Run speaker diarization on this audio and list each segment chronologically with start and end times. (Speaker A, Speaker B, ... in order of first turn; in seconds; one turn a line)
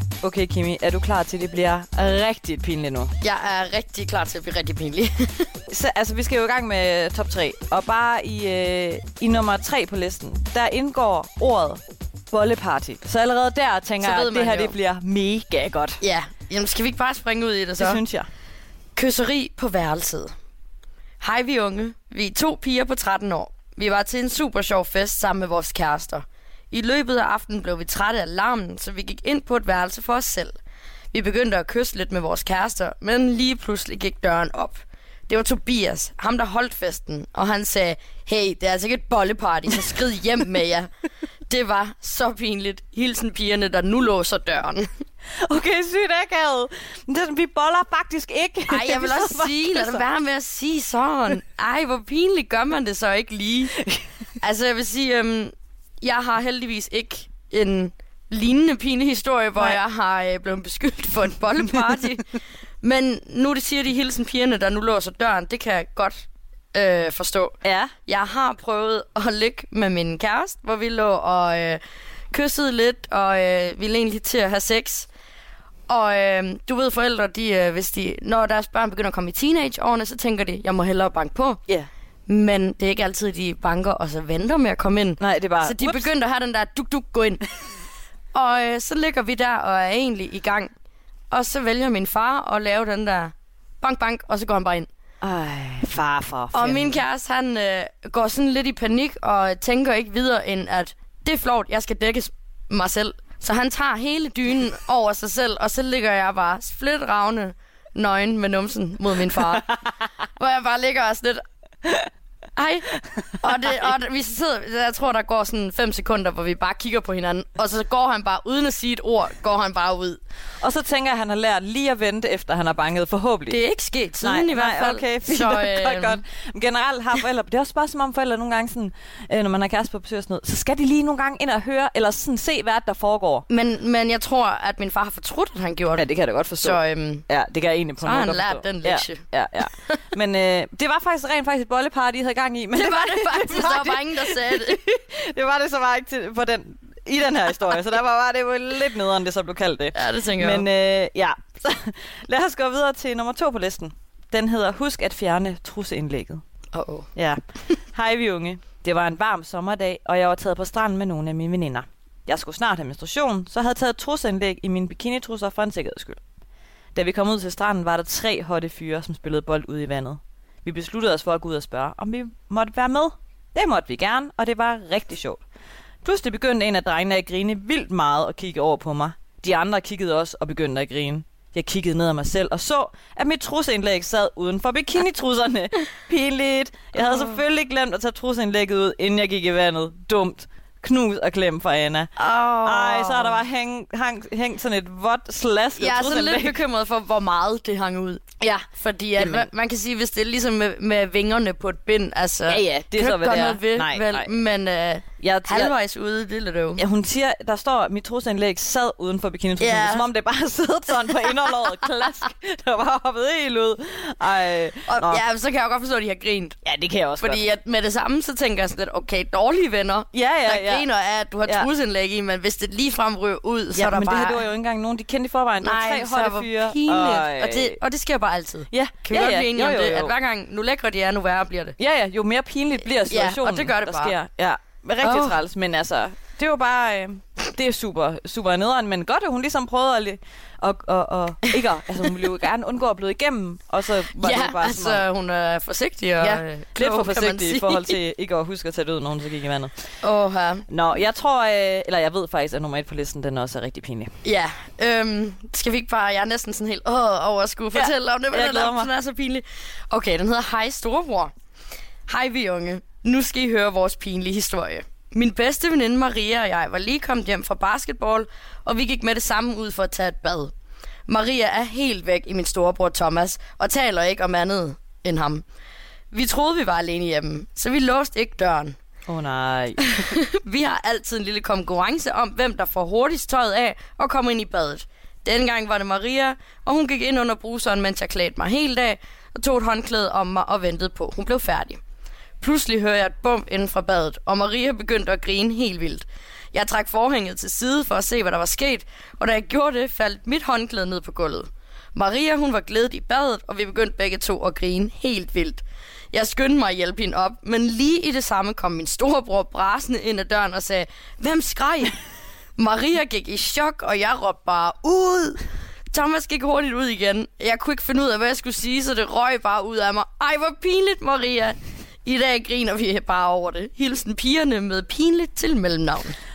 Speaker A: 0.2-3.1
Speaker B: 3.2-5.5
Speaker A: 5.7-16.0
Speaker B: 14.0-14.7
Speaker B: 16.0-18.0
Speaker A: 17.8-18.3
Speaker B: 18.9-20.3
Speaker B: 21.2-30.6
Speaker B: 31.1-40.9
Speaker B: 41.5-44.9
Speaker A: 45.4-50.0
Speaker B: 48.7-53.8
Speaker B: 54.4-62.2
Speaker B: 62.8-75.1
Speaker A: 67.6-67.9
Speaker B: 75.9-81.6
Speaker B: 82.3-87.4
Speaker A: 85.2-86.1
Speaker B: 88.3-90.7
Speaker B: 91.3-94.9
Speaker A: 95.2-97.0
Speaker B: 96.5-109.8
Speaker B: 110.4-111.4
Speaker B: 112.5-120.2
Speaker A: 120.6-123.6
Speaker B: 123.5-126.2
Speaker A: 124.2-133.5
Speaker B: 133.5-136.1
Speaker A: 135.9-156.4
Speaker B: 136.6-137.2
Speaker B: 138.0-139.2
Speaker B: 142.7-144.8
Speaker B: 149.9-150.7
Speaker B: 156.7-157.1
Speaker A: 157.1-157.4
Speaker A: 157.9-166.2
Speaker A: 166.9-175.4
Speaker A: 176.0-196.6
Speaker B: 192.2-193.4
Speaker B: 195.8-206.8
Speaker A: 199.2-199.5
Speaker A: 202.5-204.3
Speaker A: 205.2-205.7
Speaker A: 206.8-215.2
Speaker B: 209.6-210.1
Speaker B: 214.9-216.6
Speaker A: 216.6-217.4
Speaker B: 217.2-224.4
Speaker A: 220.1-220.8
Speaker A: 223.7-227.8
Speaker B: 225.6-231.8
Speaker A: 228.7-230.1
Speaker A: 231.8-245.0
Speaker B: 233.1-234.2
Speaker B: 235.0-235.4
Speaker B: 244.1-247.9
Speaker A: 246.2-249.7
Speaker B: 250.0-250.7
Speaker A: 250.7-254.1
Speaker B: 254.2-261.3
Speaker A: 257.7-258.9
Speaker B: 262.1-270.5
Speaker B: 271.1-275.4
Speaker B: 276.1-278.8
Speaker A: 279.1-280.0
Speaker B: 279.8-291.8
Speaker B: 292.4-311.9
Speaker B: 312.6-326.1